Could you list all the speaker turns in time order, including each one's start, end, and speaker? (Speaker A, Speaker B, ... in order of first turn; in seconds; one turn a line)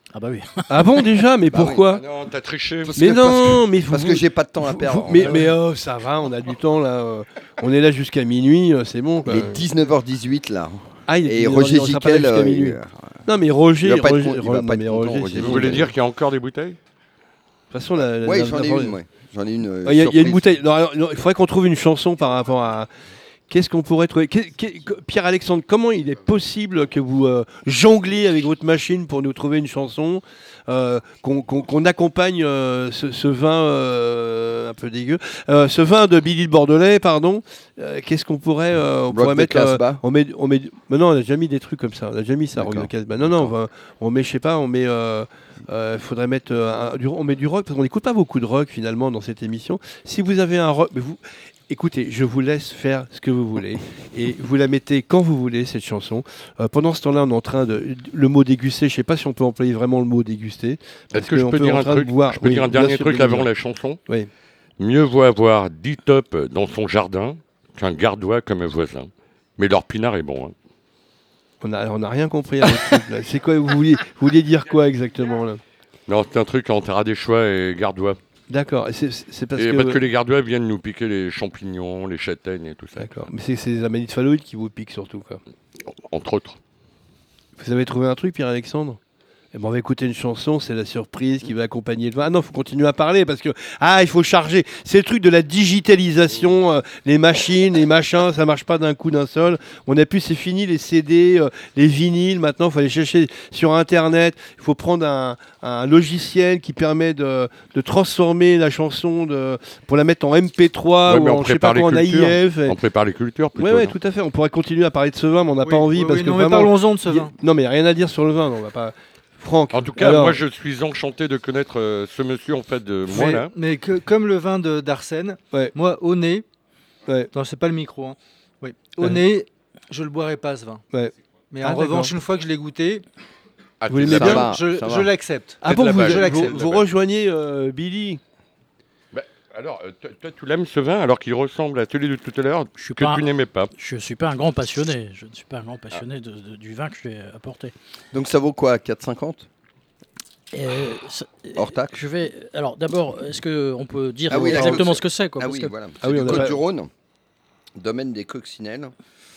Speaker A: 0.1-1.0
Speaker B: 0.7-2.0
Speaker C: 1.5-1.8
Speaker D: 1.9-3.0
Speaker C: 2.8-5.5
Speaker B: 3.0-9.7
Speaker A: 5.2-5.5
Speaker C: 9.2-13.1
Speaker B: 11.1-15.9
Speaker C: 13.8-15.9
Speaker D: 15.3-16.8
Speaker B: 17.7-19.0
Speaker C: 18.2-20.5
Speaker B: 19.8-22.9
Speaker B: 23.5-63.5
Speaker C: 39.1-40.0
Speaker C: 42.6-43.5
Speaker D: 61.1-64.0
Speaker D: 64.8-70.5
Speaker B: 71.6-75.6
Speaker D: 76.1-78.2
Speaker B: 78.5-80.0
Speaker D: 79.5-83.2
Speaker B: 83.0-85.4
Speaker D: 85.9-86.6
Speaker B: 87.6-89.0
Speaker B: 89.5-112.8
Speaker D: 111.1-114.0
Speaker B: 113.6-120.4
Speaker E: 115.6-117.3
Speaker D: 119.7-123.5
Speaker E: 123.1-126.4
Speaker E: 127.3-130.8
Speaker B: 130.9-132.1
Speaker E: 131.5-133.0
Speaker D: 133.8-134.9
Speaker B: 133.9-134.5
Speaker C: 134.1-135.1
Speaker E: 134.3-136.6
Speaker B: 135.6-138.2
Speaker D: 135.6-136.8
Speaker D: 139.1-143.7
Speaker A: 142.8-147.7
Speaker C: 148.1-149.5
Speaker A: 150.5-155.7
Speaker C: 151.6-152.0
Speaker C: 154.3-156.9
Speaker B: 154.3-154.8
Speaker B: 156.0-156.6
Speaker C: 157.8-158.9